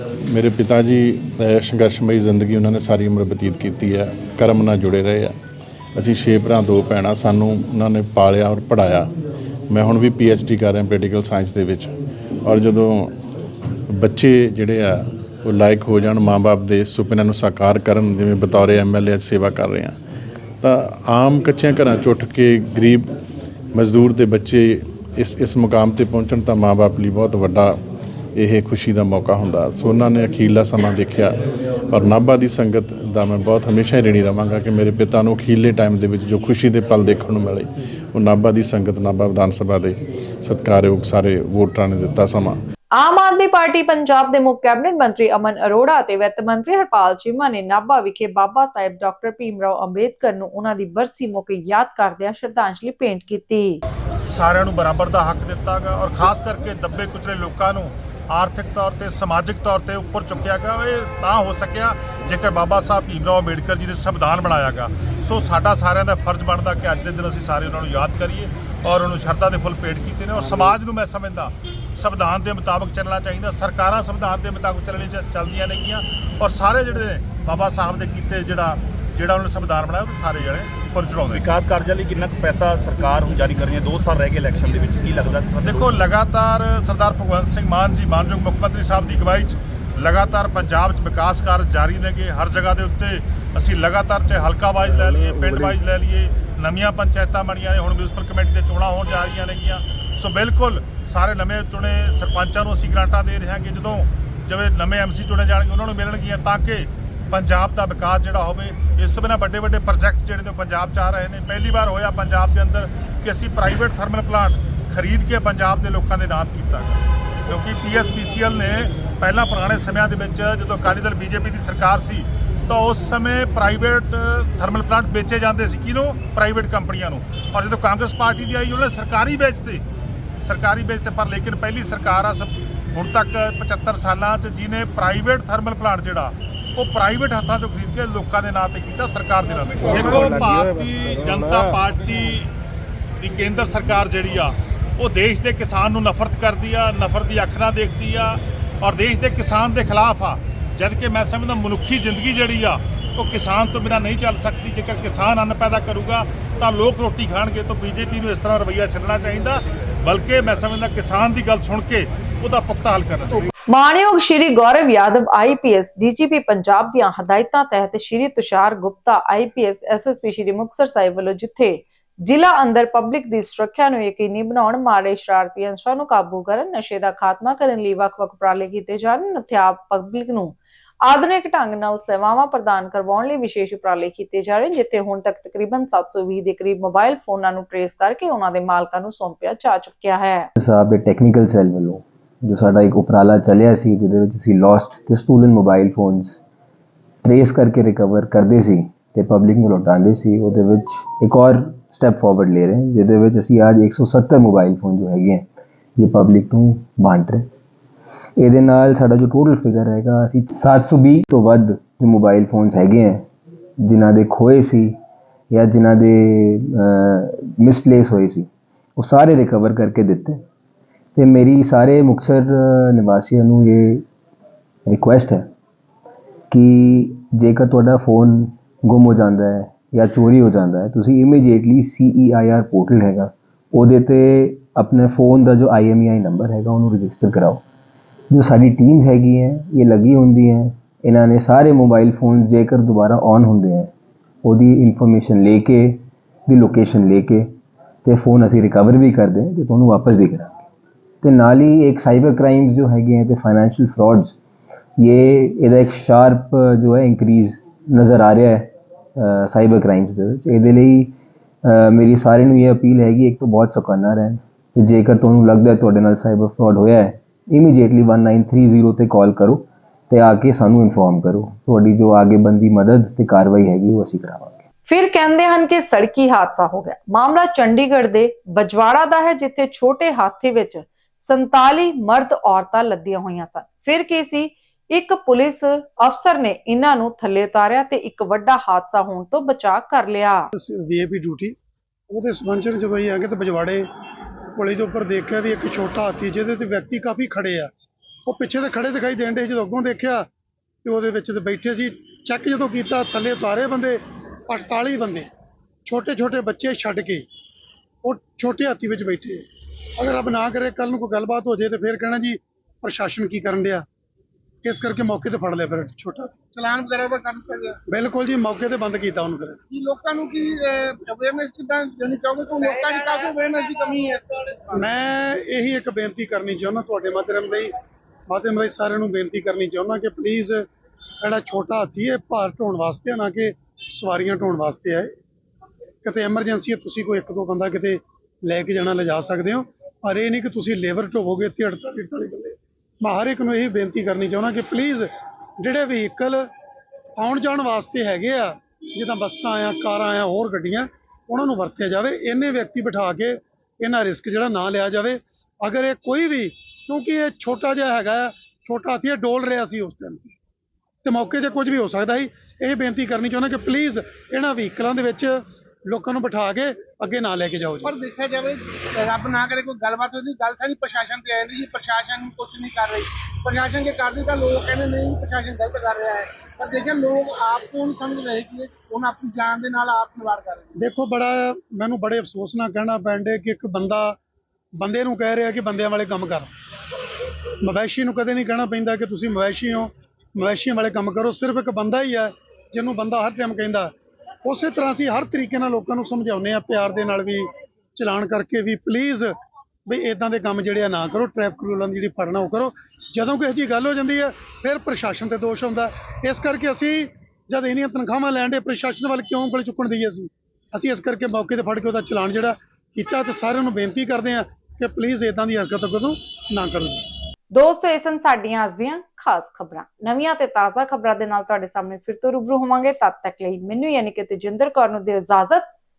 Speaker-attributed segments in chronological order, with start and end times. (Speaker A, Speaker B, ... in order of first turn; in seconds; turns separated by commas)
Speaker A: 0.3-5.3, Speaker A: 6.0-9.1, Speaker A: 9.7-11.9, Speaker A: 12.4-13.1, Speaker A: 13.9-19.9, Speaker A: 20.6-23.1, Speaker A: 23.7-27.7, Speaker A: 28.4-31.4, Speaker A: 31.9-42.5, Speaker B: 43.0-53.8, Speaker C: 54.3-81.4, Speaker D: 81.3-86.0, Speaker C: 85.6-129.8, Speaker C: 130.4-142.5, Speaker C: 143.2-163.4, Speaker B: 163.7-190.5, Speaker E: 190.6-196.3, Speaker E: 197.2-205.4, Speaker E: 206.0-207.4, Speaker E: 208.4-213.2, Speaker E: 213.8-215.0, Speaker E: 215.5-220.4, Speaker E: 221.2-224.0, Speaker E: 224.9-225.5, Speaker E: 226.5-237.6, Speaker E: 238.3-243.9, Speaker E: 244.4-247.5, Speaker E: 248.0-250.6, Speaker E: 251.2-254.3, Speaker E: 255.0-261.1, Speaker E: 261.6-274.6, Speaker B: 274.9-290.5, Speaker F: 290.6-291.5, Speaker F: 292.1-293.8, Speaker F: 294.6-297.7, Speaker F: 298.3-300.2, Speaker F: 300.8-305.3, Speaker F: 305.9-307.2, Speaker F: 308.0-309.4, Speaker F: 310.0-313.8, Speaker F: 314.6-316.4, Speaker G: 316.6-317.7, Speaker F: 317.9-319.6, Speaker G: 319.7-324.7, Speaker F: 324.7-327.7, Speaker F: 328.3-330.6, Speaker F: 331.2-335.1, Speaker F: 336.0-345.1, Speaker F: 345.6-346.4, Speaker F: 347.2-360.3, Speaker F: 361.0-367.9, Speaker G: 367.8-380.6, Speaker F: 380.7-384.1, Speaker F: 384.8-386.5, Speaker F: 387.6-393.9, Speaker F: 394.4-399.3, Speaker F: 399.9-417.0, Speaker B: 417.5-425.7